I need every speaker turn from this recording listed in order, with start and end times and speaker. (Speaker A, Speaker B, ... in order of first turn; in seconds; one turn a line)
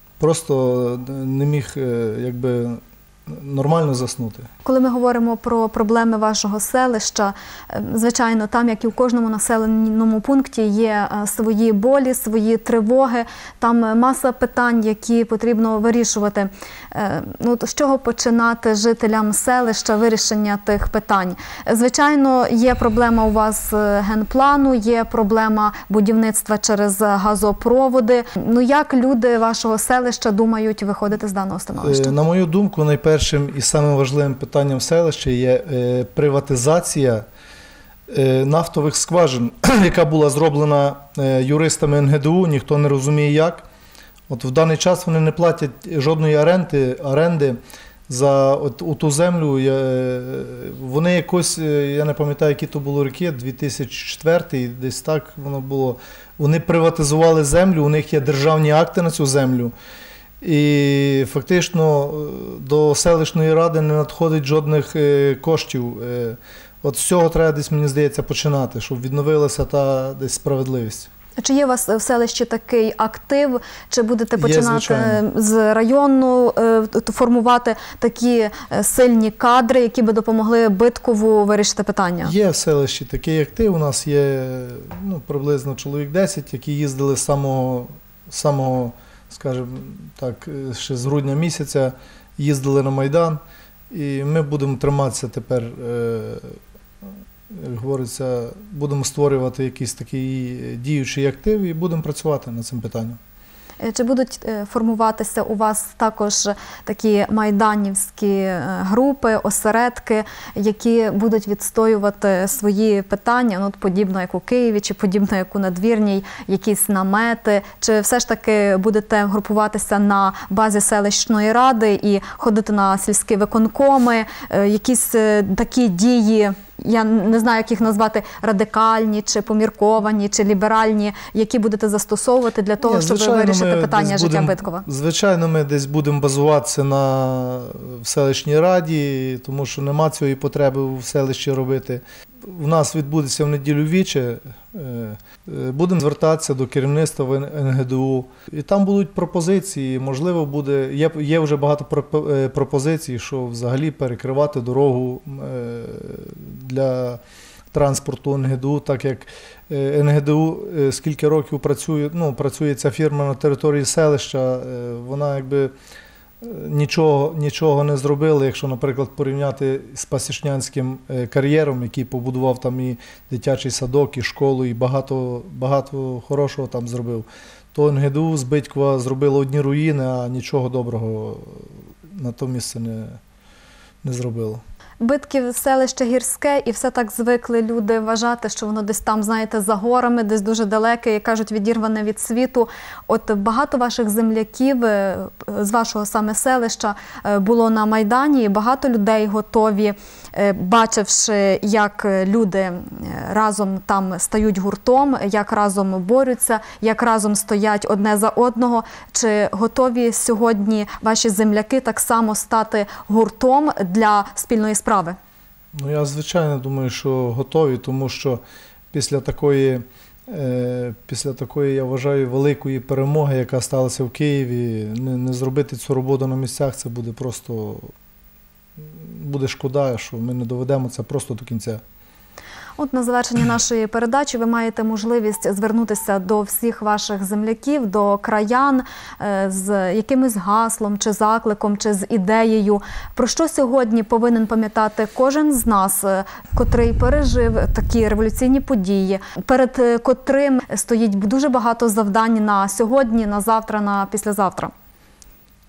Speaker A: 0.2-4.5
Speaker B: 4.6-32.1
Speaker A: 31.8-37.2
Speaker A: 38.1-43.6
Speaker A: 44.3-59.7
Speaker A: 60.4-71.1
Speaker B: 71.4-82.3
Speaker A: 74.4-75.2
Speaker A: 82.2-96.6
Speaker A: 97.5-103.2
Speaker B: 103.8-134.8
Speaker A: 132.8-157.2
Speaker A: 157.7-165.7
Speaker A: 166.4-183.2
Speaker A: 184.0-184.6
Speaker B: 185.0-215.2
Speaker A: 215.7-218.4
Speaker A: 218.9-227.9
Speaker A: 228.8-231.8
Speaker B: 232.8-254.7